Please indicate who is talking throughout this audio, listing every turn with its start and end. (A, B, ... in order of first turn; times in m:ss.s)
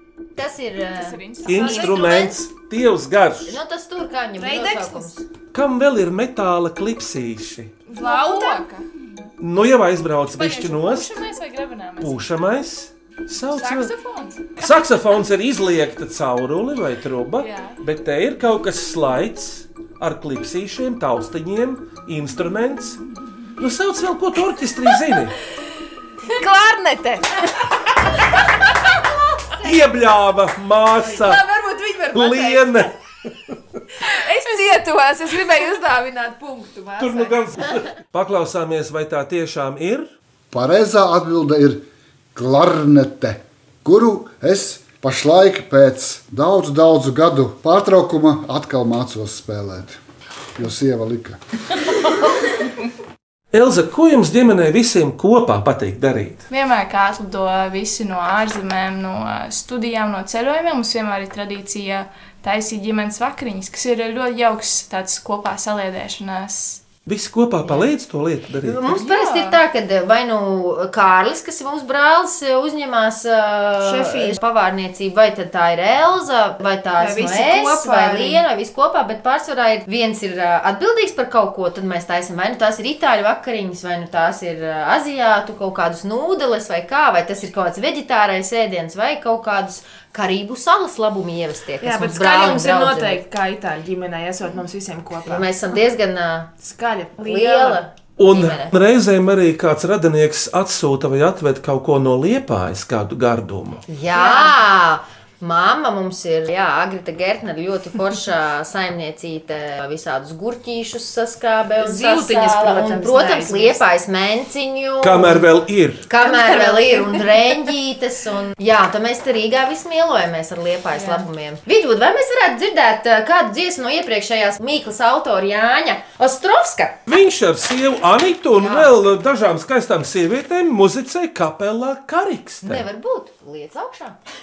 0:00.4-0:02.4 A
0:01.0-0:01.8 B
0:01.4-0:03.6 C
0:01.5-0:02.2 D
0:03.5-0:05.2 A
0:04.4-0:05.1 D
0:05.5-0:07.7 C
0:07.9-0:08.7 D
0:07.9-0:08.8 B
0:09.4-0:11.1 C
0:10.3-0:12.3 B
0:12.0-0:13.9 C
0:13.5-0:14.4 B
0:14.6-0:23.0 C
0:17.4-0:17.8 B
0:23.6-0:25.4 C
0:26.3-0:28.5 D
0:29.6-0:31.4 C
0:31.0-0:32.8 D
0:32.1-0:32.9 C
0:34.0-0:37.4 D
0:37.0-0:40.1 C
0:40.5-0:41.8 E
0:42.4-0:50.0 E
0:50.6-0:51.4 E
0:53.5-0:56.4 C
0:56.5-1:06.8 B
1:07.1-1:08.8 C
1:08.6-1:33.2 A
1:08.9-1:09.6 B
1:13.8-1:14.4 D
1:17.0-1:18.4 D
1:31.8-1:35.5 D
1:35.3-1:36.6 A
1:36.6-1:37.8 D
1:37.2-1:38.8 A
1:38.2-1:43.8 C
1:43.9-1:55.5 A
1:44.1-1:44.6 D
1:51.8-1:53.8 D
1:55.0-1:56.1 C
1:56.1-2:07.0 A
1:56.3-1:57.2 D
2:01.0-2:01.3 D
2:07.1-2:12.8 C
2:08.5-2:08.9 A
2:12.6-2:14.2 A